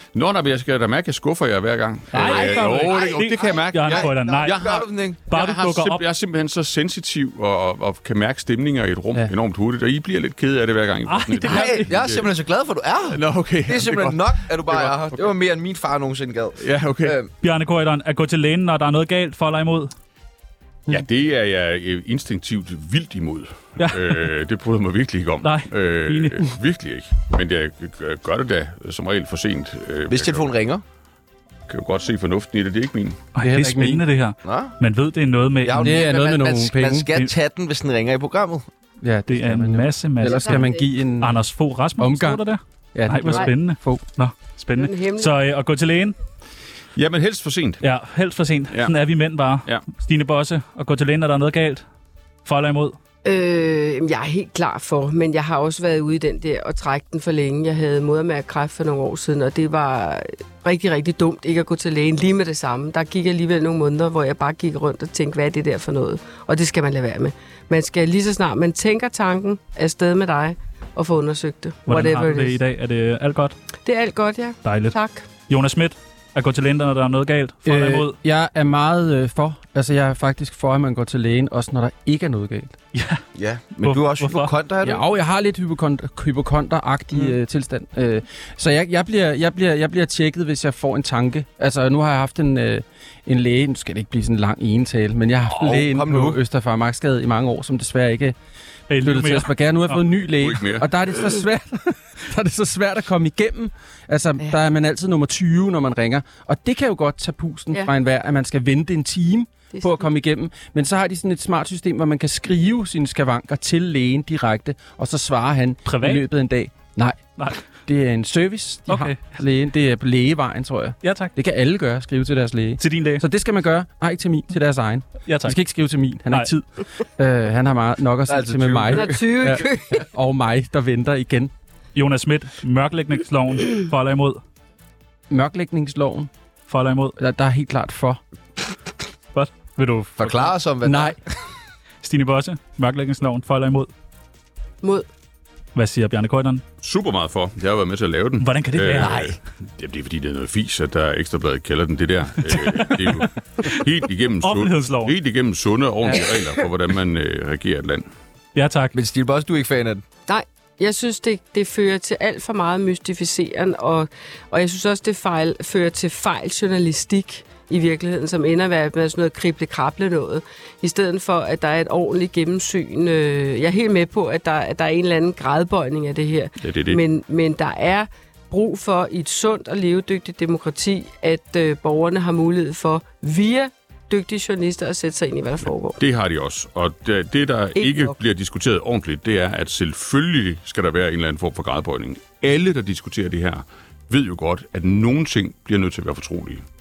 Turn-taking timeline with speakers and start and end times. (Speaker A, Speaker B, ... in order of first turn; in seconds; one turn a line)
Speaker A: 0.1-12.3
Speaker B: 2.1-6.0
Speaker C: 2.1-5.2
Speaker B: 11.1-11.9
Speaker C: 11.4-17.3
Speaker A: 13.1-15.3
Speaker A: 16.6-17.2
Speaker B: 17.4-19.9
Speaker A: 20.9-30.5
Speaker B: 23.8-24.2
Speaker B: 25.4-26.4
Speaker C: 30.1-30.8
Speaker A: 31.7-33.2
Speaker B: 33.4-36.0
Speaker D: 33.4-34.0
Speaker C: 34.4-34.8
Speaker C: 35.6-38.6
Speaker D: 35.8-37.1
Speaker D: 39.0-41.4
Speaker B: 39.3-46.1
Speaker E: 40.2-40.8
Speaker D: 42.0-42.4
Speaker D: 42.9-44.0
Speaker E: 44.8-45.4
Speaker A: 47.0-47.8
Speaker B: 47.8-51.9
Speaker B: 52.5-53.0
Speaker E: 53.2-72.6
Speaker B: 71.9-73.5
Speaker E: 73.8-75.3
Speaker B: 74.7-75.0
Speaker B: 75.5-78.2
Speaker D: 77.7-82.8
Speaker B: 82.9-83.2
Speaker C: 83.3-85.0
Speaker B: 83.8-84.5
Speaker D: 84.8-98.4
Speaker C: 95.5-96.4
Speaker B: 98.9-100.0
Speaker D: 99.0-117.2
Speaker A: 100.3-100.9
Speaker E: 109.7-110.0
Speaker B: 115.8-116.3
Speaker B: 117.4-117.6
Speaker D: 117.8-131.5
Speaker B: 118.9-119.2
Speaker B: 121.0-121.3
Speaker B: 122.8-123.2
Speaker B: 125.3-125.6
Speaker C: 128.3-129.3
Speaker E: 128.9-130.1
Speaker B: 131.9-134.4
Speaker D: 135.3-136.3
Speaker B: 136.7-137.2
Speaker D: 137.2-138.2
Speaker B: 139.3-140.5
Speaker C: 140.2-141.2
Speaker D: 140.8-141.2
Speaker B: 142.0-143.9
Speaker B: 145.8-146.6
Speaker A: 146.8-158.1
Speaker B: 148.4-149.3
Speaker B: 152.6-153.8
Speaker B: 154.4-155.1
Speaker B: 158.6-158.9
Speaker C: 158.9-160.1
Speaker E: 160.3-186.0
Speaker A: 176.6-177.0
Speaker A: 186.0-196.6
Speaker E: 187.8-188.2